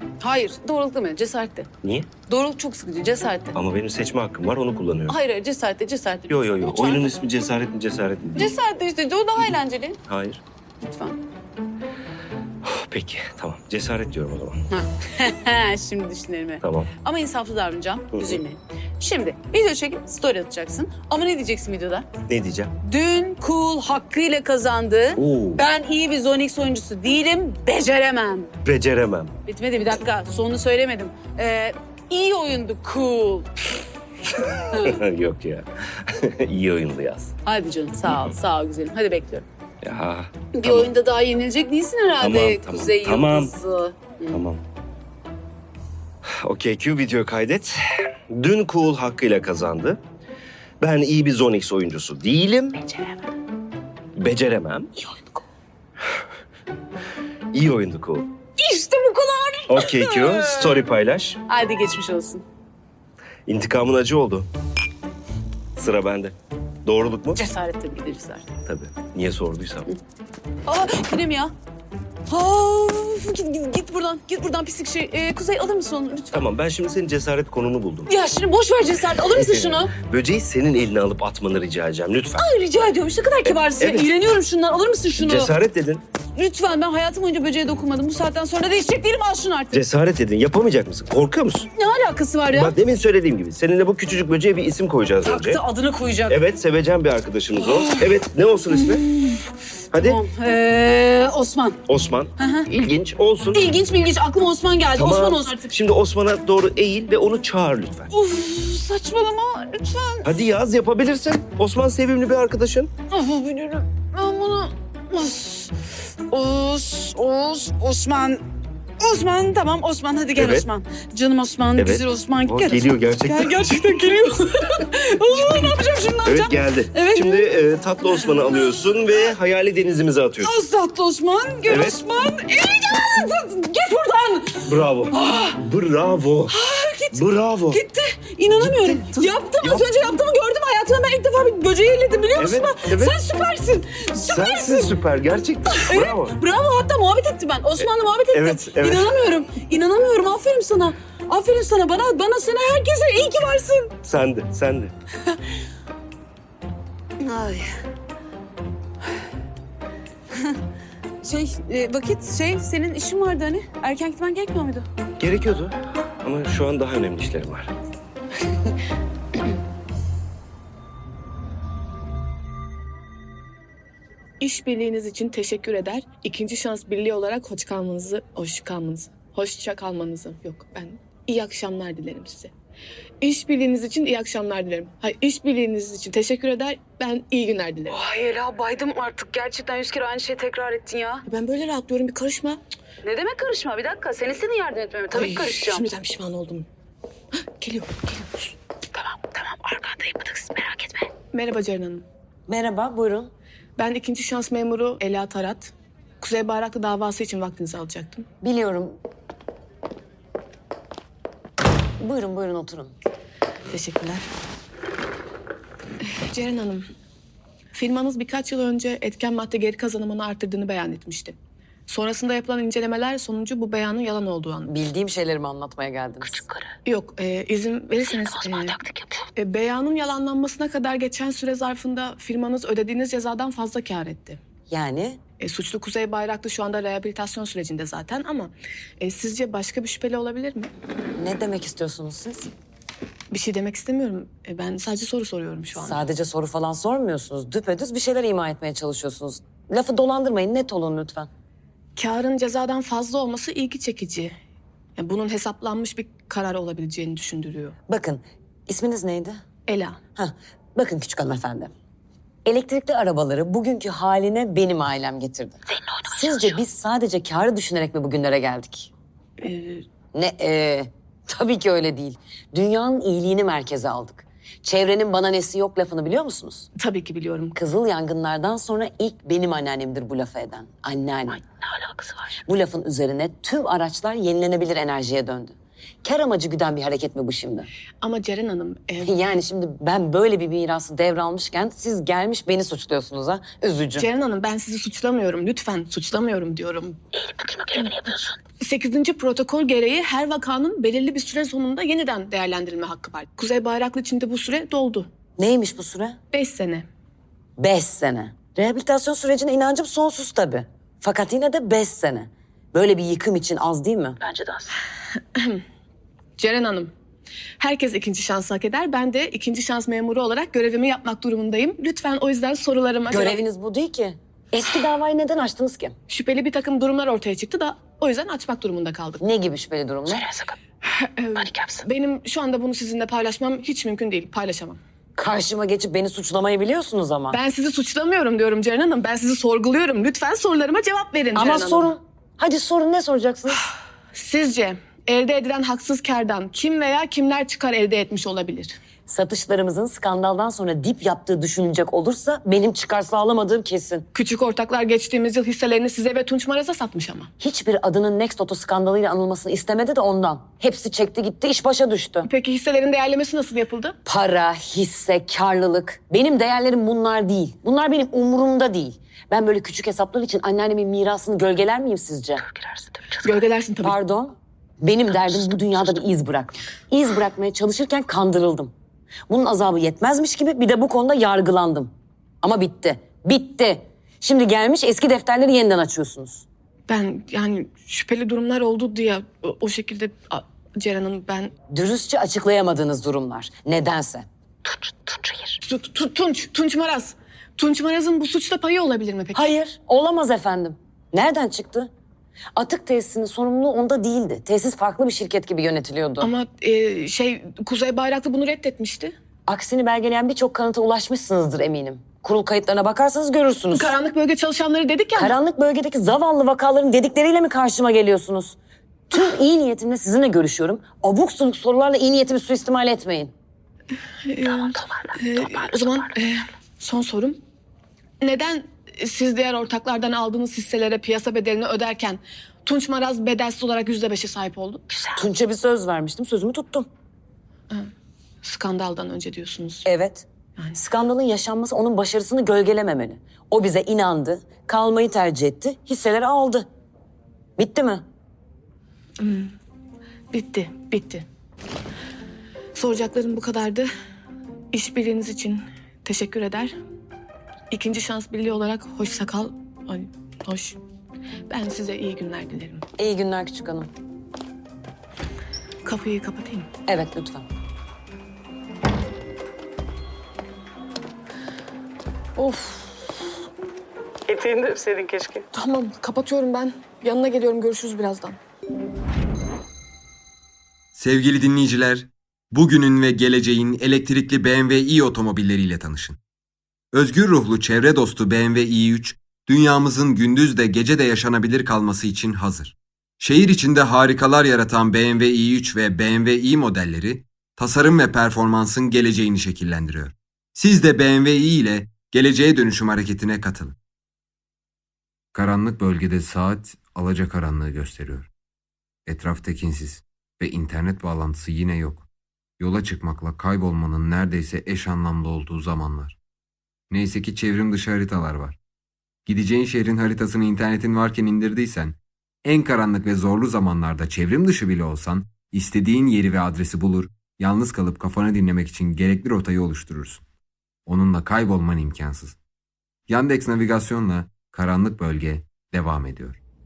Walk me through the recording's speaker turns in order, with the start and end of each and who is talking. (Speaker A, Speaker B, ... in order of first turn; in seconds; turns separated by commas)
Speaker A: 0.2-1.7, Speaker B: 1.8-2.1, Speaker A: 2.3-3.6, Speaker B: 3.5-5.2, Speaker A: 5.1-7.1, Speaker B: 6.3-8.5, Speaker A: 8.3-10.0, Speaker B: 10.1-10.4, Speaker A: 10.8-11.2, Speaker B: 12.6-14.6, Speaker A: 14.7-22.1, Speaker B: 16.6-16.9, Speaker B: 18.1-18.4, Speaker B: 22.3-22.7, Speaker A: 22.8-28.5, Speaker B: 25.1-25.6, Speaker B: 28.6-29.3, Speaker A: 29.5-33.5, Speaker B: 34.3-37.3, Speaker A: 34.7-35.0, Speaker A: 37.5-39.5, Speaker B: 39.8-40.9, Speaker A: 40.5-44.4, Speaker B: 42.2-43.5, Speaker B: 44.3-44.6, Speaker B: 46.3-50.0, Speaker B: 50.8-53.0, Speaker B: 54.2-54.9, Speaker B: 57.5-58.3, Speaker A: 58.6-60.8, Speaker B: 59.7-61.4, Speaker A: 61.5-62.4, Speaker B: 63.5-64.5, Speaker B: 65.8-67.4, Speaker A: 67.3-68.5, Speaker B: 68.7-69.9, Speaker A: 70.7-71.5, Speaker A: 72.3-76.5, Speaker B: 76.3-78.1, Speaker A: 78.1-79.9, Speaker B: 79.3-82.4, Speaker A: 82.4-85.5, Speaker B: 83.5-84.1, Speaker B: 85.1-86.0, Speaker A: 86.3-89.8, Speaker B: 89.7-91.7, Speaker A: 91.8-92.8, Speaker B: 92.5-95.6, Speaker A: 95.2-96.4, Speaker B: 96.3-99.1, Speaker A: 97.6-98.1, Speaker A: 98.7-99.4, Speaker B: 99.9-100.2, Speaker A: 100.0-101.8, Speaker B: 101.9-103.7, Speaker A: 102.4-102.7, Speaker A: 103.5-105.7, Speaker B: 105.0-108.1, Speaker A: 108.1-110.3, Speaker B: 110.2-112.9, Speaker A: 113.1-115.7, Speaker A: 116.3-118.4, Speaker A: 119.0-127.5, Speaker B: 120.4-120.7, Speaker B: 121.8-123.7, Speaker B: 125.4-130.5, Speaker A: 128.1-128.4, Speaker A: 130.4-135.6, Speaker B: 131.7-132.0, Speaker B: 134.6-136.6, Speaker A: 136.5-144.9, Speaker B: 137.1-137.8, Speaker B: 138.6-140.1, Speaker B: 142.4-143.2, Speaker B: 144.2-146.4, Speaker A: 145.7-153.9, Speaker B: 147.8-149.2, Speaker B: 154.0-154.9, Speaker A: 157.2-157.7, Speaker A: 161.2-164.9, Speaker B: 165.2-167.7, Speaker C: 174.4-182.5, Speaker C: 183.2-187.9, Speaker A: 187.9-191.2, Speaker C: 191.3-192.6, Speaker A: 193.0-195.9, Speaker C: 195.1-196.7, Speaker C: 197.6-198.6, Speaker A: 198.9-201.1, Speaker C: 201.3-202.1, Speaker D: 202.5-203.3, Speaker C: 203.8-208.3, Speaker D: 208.4-209.0, Speaker D: 212.0-212.9, Speaker C: 213.7-214.3, Speaker C: 216.1-216.9, Speaker C: 217.7-224.7, Speaker D: 224.7-226.5, Speaker C: 226.8-228.8, Speaker C: 229.4-234.4, Speaker D: 234.7-235.2, Speaker C: 235.4-240.7, Speaker D: 241.2-242.5, Speaker C: 243.3-246.0, Speaker D: 245.8-251.3, Speaker C: 252.0-254.4, Speaker C: 255.0-257.8, Speaker D: 257.9-259.4, Speaker C: 259.7-260.0, Speaker D: 260.1-261.7, Speaker D: 262.5-268.9, Speaker C: 269.4-269.9, Speaker D: 270.1-276.7, Speaker C: 276.8-277.5, Speaker D: 277.6-281.5, Speaker D: 282.5-287.7, Speaker C: 288.0-289.1, Speaker D: 289.0-294.1, Speaker C: 294.0-297.0, Speaker C: 298.6-305.1, Speaker D: 305.4-306.2, Speaker C: 306.3-306.9, Speaker D: 307.6-314.2, Speaker C: 315.4-315.6, Speaker C: 316.4-316.9, Speaker C: 317.6-323.4, Speaker D: 323.1-326.0, Speaker C: 326.1-329.2, Speaker D: 329.2-330.4, Speaker C: 330.8-334.8, Speaker D: 335.2-337.4, Speaker C: 337.3-341.9, Speaker D: 341.4-343.6, Speaker C: 344.1-348.8, Speaker D: 349.1-354.1, Speaker C: 354.1-357.3, Speaker D: 357.4-362.3, Speaker C: 362.2-364.0, Speaker D: 364.1-372.5, Speaker C: 373.2-373.9, Speaker D: 373.8-378.7, Speaker D: 379.3-386.4, Speaker C: 386.9-391.5, Speaker D: 391.7-394.3, Speaker D: 394.9-395.4, Speaker C: 395.6-399.5, Speaker D: 399.3-401.9, Speaker D: 402.6-406.3, Speaker C: 406.2-409.1, Speaker D: 409.5-413.9, Speaker C: 413.7-415.3, Speaker D: 415.1-418.6, Speaker D: 419.1-423.3, Speaker C: 424.3-427.4, Speaker C: 428.2-434.8, Speaker D: 435.1-436.9, Speaker C: 438.4-439.9, Speaker D: 439.9-446.7, Speaker D: 447.6-448.0, Speaker C: 449.2-449.5, Speaker C: 450.3-451.2, Speaker C: 452.8-453.9, Speaker C: 454.7-456.8, Speaker C: 457.7-460.8, Speaker C: 461.5-462.8, Speaker D: 463.0-463.9, Speaker C: 465.8-466.7, Speaker D: 466.9-467.5, Speaker A: 472.4-472.9, Speaker A: 474.3-475.4, Speaker C: 475.5-478.4, Speaker E: 480.9-486.2, Speaker E: 486.9-503.8, Speaker E: 505.3-508.3, Speaker E: 509.1-512.1, Speaker E: 512.6-516.2, Speaker E: 516.9-518.6, Speaker E: 519.3-530.2, Speaker E: 530.9-532.4, Speaker E: 533.1-536.4